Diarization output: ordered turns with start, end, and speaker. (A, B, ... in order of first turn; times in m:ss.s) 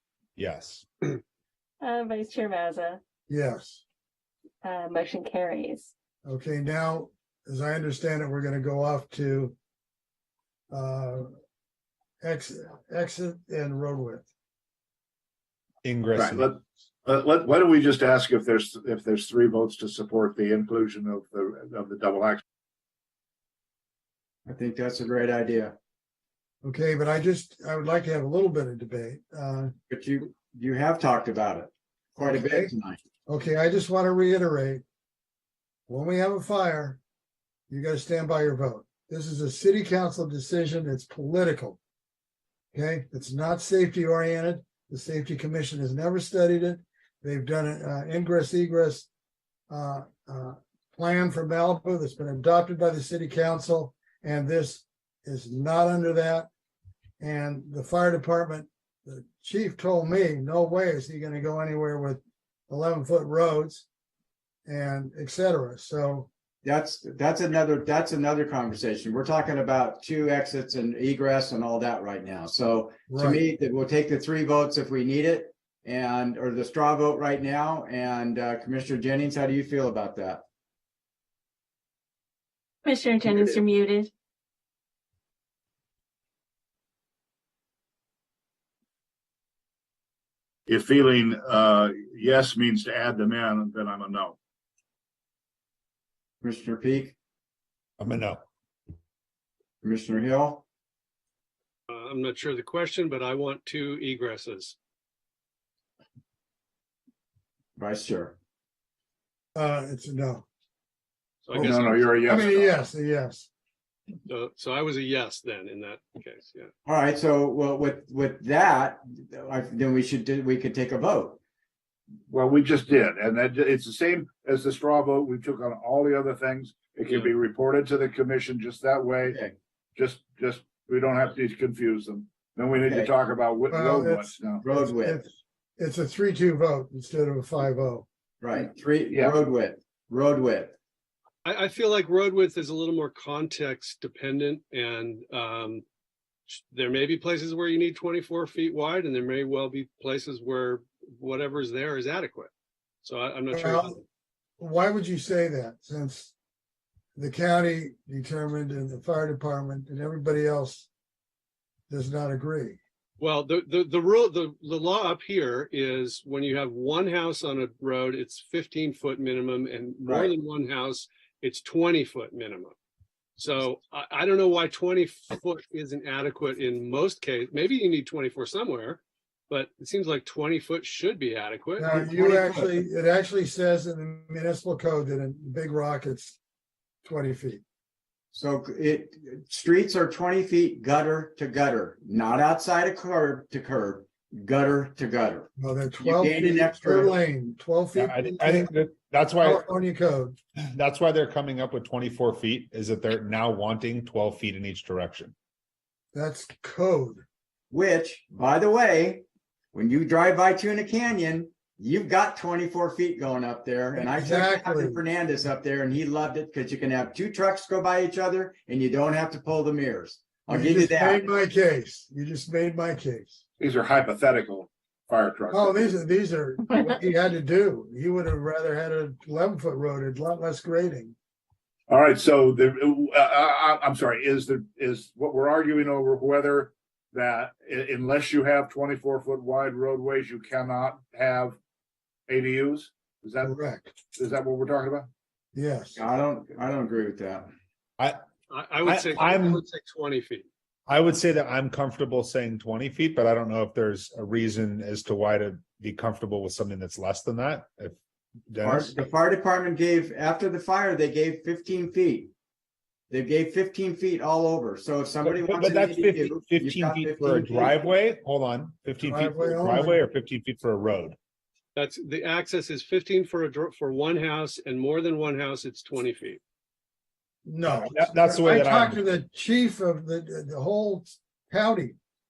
0:00.4-0:00.8 A
0:01.8-0:03.0 B
0:03.3-0:03.8 C
0:04.6-0:05.9 B
0:06.2-0:09.5 C
0:10.7-0:11.3 C
0:12.2-0:14.2 C
0:15.8-0:16.5 A
0:16.2-0:22.4 D
0:24.4-0:25.7 E
0:26.6-0:29.7 C
0:29.9-0:33.0 E
0:32.2-0:32.7 C
0:33.3-0:34.8 C
0:35.9-0:37.0 C
0:37.7-0:41.8 C
0:42.7-0:49.1 C
0:49.7-0:56.5 C
0:57.2-1:03.9 C
1:04.6-1:06.3 C
1:06.6-1:20.4 E
1:13.1-1:13.4 C
1:22.8-1:24.1 B
1:30.7-1:34.4 D
1:36.4-1:37.1 E
1:38.0-1:38.4 A
1:39.8-1:40.6 E
1:41.9-1:44.7 F
1:47.8-1:48.4 E
1:49.5-1:50.4 C
1:51.4-1:52.3 F
1:51.5-1:52.8 D
1:51.6-1:51.9 E
1:52.2-1:53.5 C
1:54.3-1:56.7 F
1:56.8-2:01.4 E
2:02.3-2:09.4 D
2:09.2-2:09.5 E
2:10.0-2:14.6 D
2:12.8-2:13.1 E
2:13.7-2:18.0 C
2:14.6-2:15.2 E
2:18.4-2:20.7 E
2:21.4-2:25.8 F
2:26.5-2:32.5 F
2:33.0-2:34.0 F
2:33.5-2:34.0 C
2:34.6-2:36.3 C
2:37.2-2:40.9 C
2:41.9-2:42.8 C
2:43.2-2:52.7 F
2:50.0-2:50.3 E
2:53.4-3:02.0 F
3:01.8-3:06.4 C
3:01.9-3:02.8 E
3:07.0-3:07.6 C
3:08.3-3:15.5 E
3:15.6-3:18.7 C
3:16.0-3:17.1 E
3:18.0-3:19.6 A
3:19.4-3:20.4 C
3:20.7-3:25.3 A
3:26.1-3:27.2 C
3:27.7-3:41.3 E
3:34.0-3:35.0 C
3:40.5-3:43.4 C
3:43.6-3:45.9 D
3:45.5-3:51.1 C
3:51.9-4:01.6 D
4:02.3-4:03.5 D
4:03.4-4:04.0 C
4:04.1-4:05.1 D
4:05.5-4:06.0 C
4:06.0-4:07.5 E
4:08.5-4:10.4 F
4:08.8-4:09.6 A
4:10.9-4:18.0 A
4:18.5-4:19.1 A
4:18.6-4:22.3 E
4:23.1-4:27.8 E
4:25.2-4:31.2 A
4:29.0-4:30.0 C
4:31.8-4:36.4 F
4:37.4-4:42.0 C
4:37.6-4:39.0 A